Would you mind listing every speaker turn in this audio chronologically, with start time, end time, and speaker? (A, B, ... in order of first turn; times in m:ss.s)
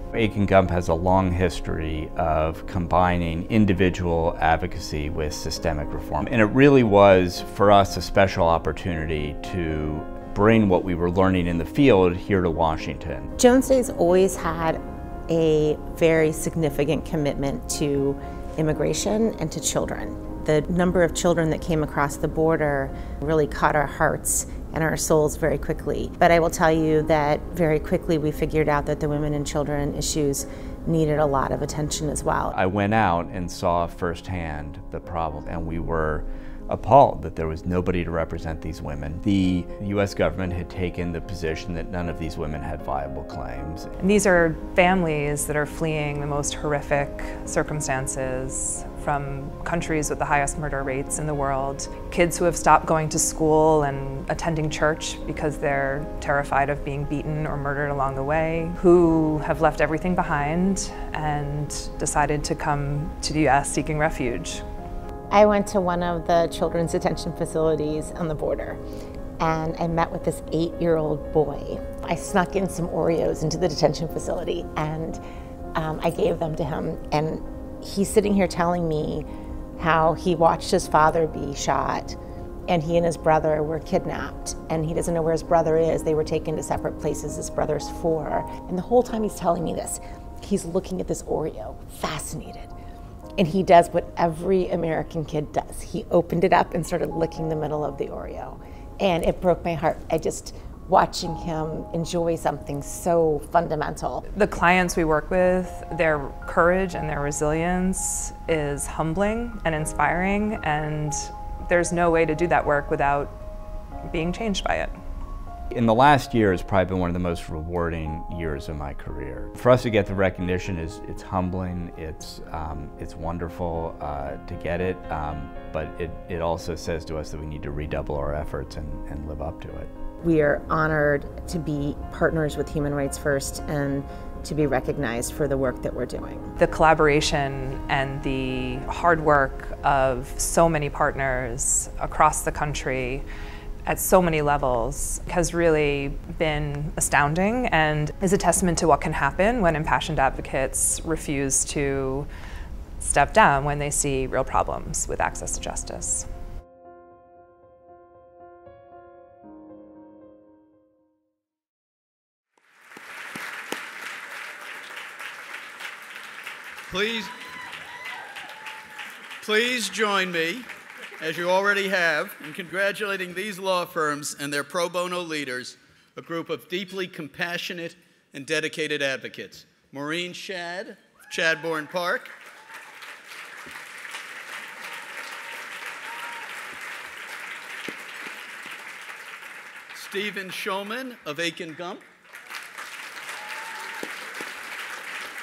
0:00.1-0:13.2 A
0:13.4-0:32.5 B
0:32.6-0:43.9 A
0:44.0-1:04.6 C
1:05.3-1:08.8 B
1:09.4-1:15.2 B
1:15.7-1:19.3 B
1:19.8-1:22.2 B
1:22.7-1:32.7 B
1:33.4-1:44.2 B
1:44.3-1:53.3 C
1:54.0-1:54.9 C
1:55.7-2:09.9 A
2:10.2-2:16.5 B
2:16.6-2:23.2 C
2:23.8-2:32.3 C
2:33.0-2:36.3 C
2:46.9-2:47.3 D
2:49.4-2:50.7 D
2:51.2-3:02.3 D
3:09.9-3:12.0 D